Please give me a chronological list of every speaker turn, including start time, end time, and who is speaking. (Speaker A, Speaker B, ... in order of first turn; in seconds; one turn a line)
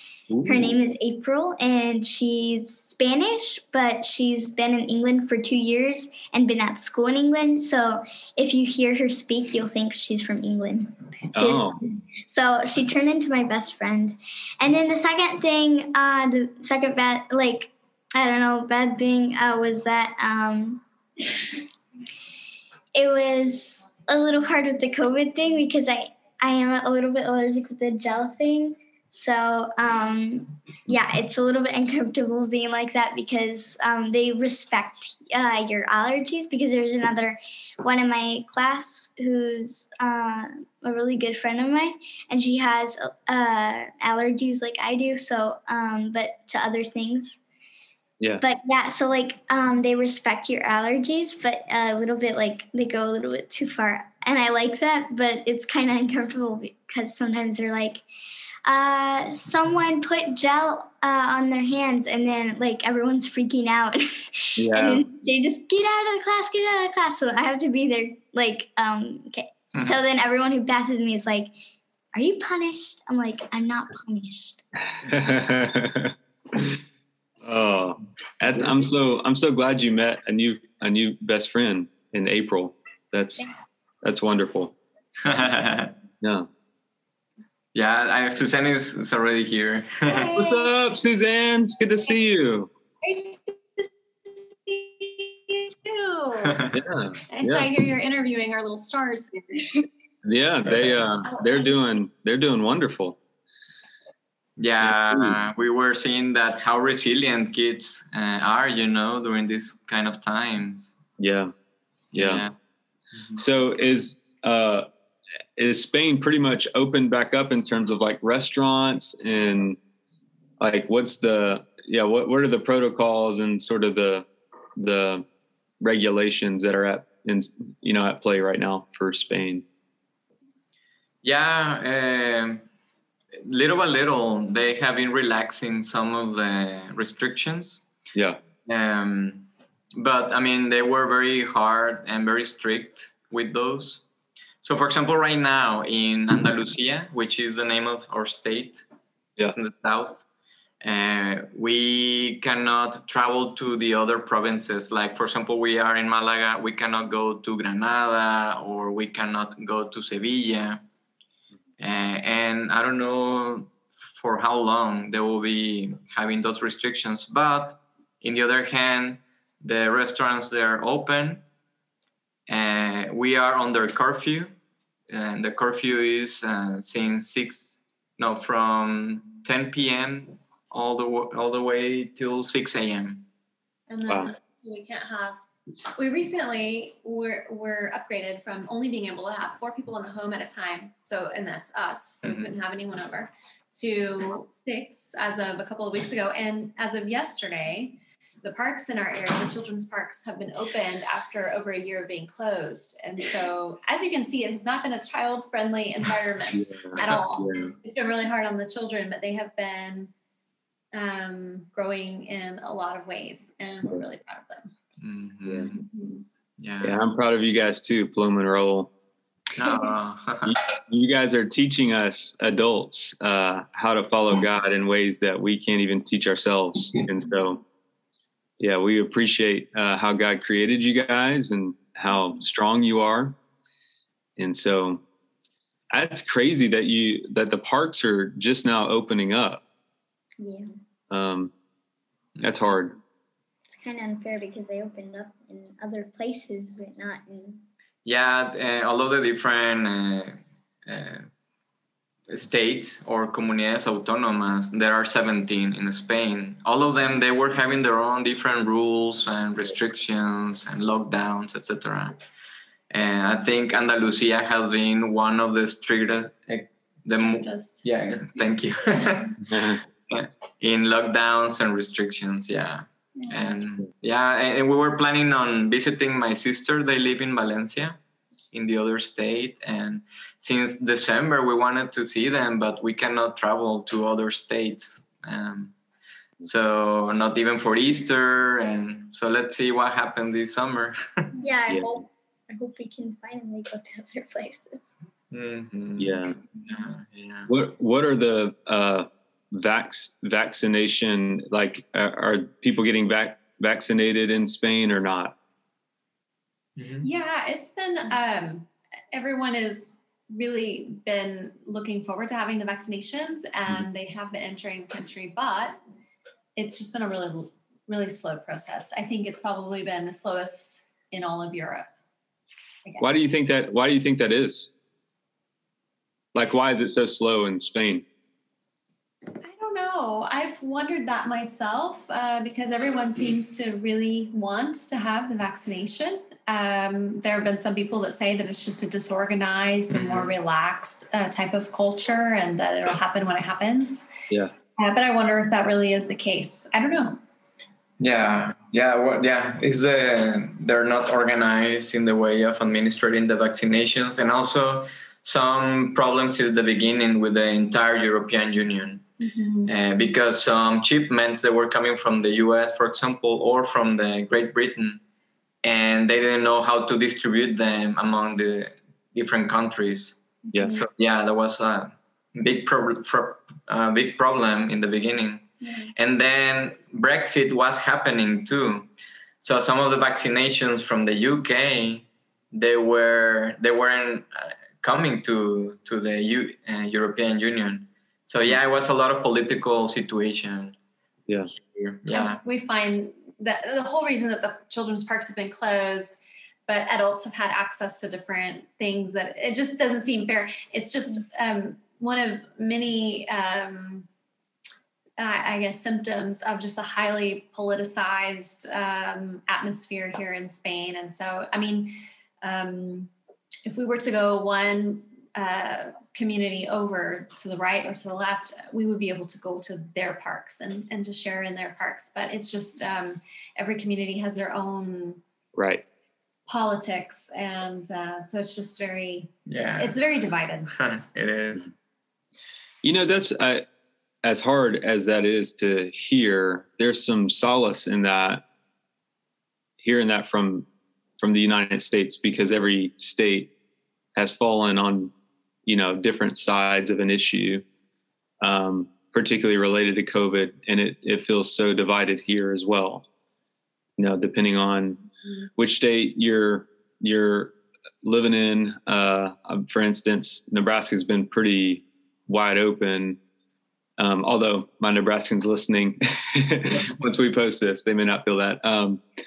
Speaker A: 0.3-0.7
Speaker B: 0.5-20.8
Speaker A: 11.3-11.8
Speaker B: 22.9-47.4
Speaker B: 48.4-58.0
Speaker B: 58.6-71.5
Speaker A: 64.6-65.1
Speaker B: 72.1-74.6
Speaker A: 74.9-76.8
Speaker A: 77.4-83.5
Speaker A: 84.0-84.7
Speaker C: 85.2-86.0
Speaker A: 86.2-86.5
Speaker C: 87.7-90.4
Speaker D: 90.1-90.7
Speaker A: 90.3-92.7
Speaker D: 93.0-93.9
Speaker D: 94.7-96.6
Speaker C: 96.4-96.8
Speaker A: 96.7-97.7
Speaker D: 97.3-99.7
Speaker A: 100.2-103.2
Speaker C: 104.6-111.0
Speaker A: 104.8-105.4
Speaker A: 111.2-111.5
Speaker C: 112.1-112.5
Speaker A: 112.2-112.5
Speaker A: 113.4-114.9
Speaker A: 115.6-119.8
Speaker A: 120.6-125.3
Speaker A: 125.8-129.6
Speaker C: 131.2-132.6
Speaker C: 133.4-137.9
Speaker A: 138.2-138.4
Speaker C: 138.7-144.0
Speaker C: 144.6-148.8
Speaker C: 149.4-150.2
Speaker C: 150.8-160.8
Speaker C: 161.8-171.4
Speaker C: 172.5-174.5
Speaker C: 175.1-183.3
Speaker D: 183.9-185.4
Speaker A: 184.1-184.3
Speaker D: 185.9-210.1
Speaker C: 192.2-192.5
Speaker A: 206.5-207.8
Speaker D: 210.9-214.7
Speaker C: 215.0-215.8
Speaker D: 215.7-216.2
Speaker C: 216.6-217.0
Speaker A: 216.8-218.9
Speaker C: 219.6-220.6
Speaker A: 220.4-227.6
Speaker A: 228.6-233.4
Speaker A: 234.4-235.0
Speaker A: 235.9-239.6
Speaker B: 240.4-240.7
Speaker A: 241.1-241.5
Speaker A: 242.4-243.0
Speaker B: 243.7-247.6
Speaker C: 248.1-251.3
Speaker C: 252.3-262.2
Speaker C: 262.9-269.4
Speaker D: 267.2-267.9
Speaker A: 269.5-269.8
Speaker C: 270.1-278.0
Speaker D: 273.2-273.5
Speaker C: 278.5-285.7
Speaker C: 286.4-291.3
Speaker B: 291.4-294.9
Speaker A: 291.7-292.0
Speaker C: 295.3-297.5
Speaker A: 296.0-296.4
Speaker A: 297.5-305.4
Speaker C: 306.8-307.1
Speaker D: 307.0-315.8
Speaker D: 316.6-321.9
Speaker D: 322.9-323.3
Speaker A: 323.0-324.7
Speaker A: 326.3-328.0
Speaker D: 329.4-344.1
Speaker C: 339.9-340.3
Speaker D: 344.8-347.2
Speaker C: 348.0-359.1
Speaker D: 359.2-359.7
Speaker C: 359.7-365.0
Speaker C: 365.6-370.2
Speaker D: 370.5-370.8
Speaker A: 370.5-370.8
Speaker C: 370.7-378.9
Speaker C: 379.4-390.8
Speaker C: 391.5-392.4
Speaker D: 392.1-404.1
Speaker D: 405.2-413.1
Speaker D: 413.7-425.2
Speaker A: 425.6-425.8
Speaker D: 426.5-430.7
Speaker C: 429.5-430.0
Speaker C: 430.7-431.7
Speaker A: 432.8-433.7
Speaker A: 434.2-438.4
Speaker A: 439.8-440.7
Speaker A: 441.2-443.5
Speaker A: 444.2-445.1
Speaker A: 445.7-447.6
Speaker A: 448.4-453.1
Speaker A: 454.0-463.2
Speaker A: 464.0-469.0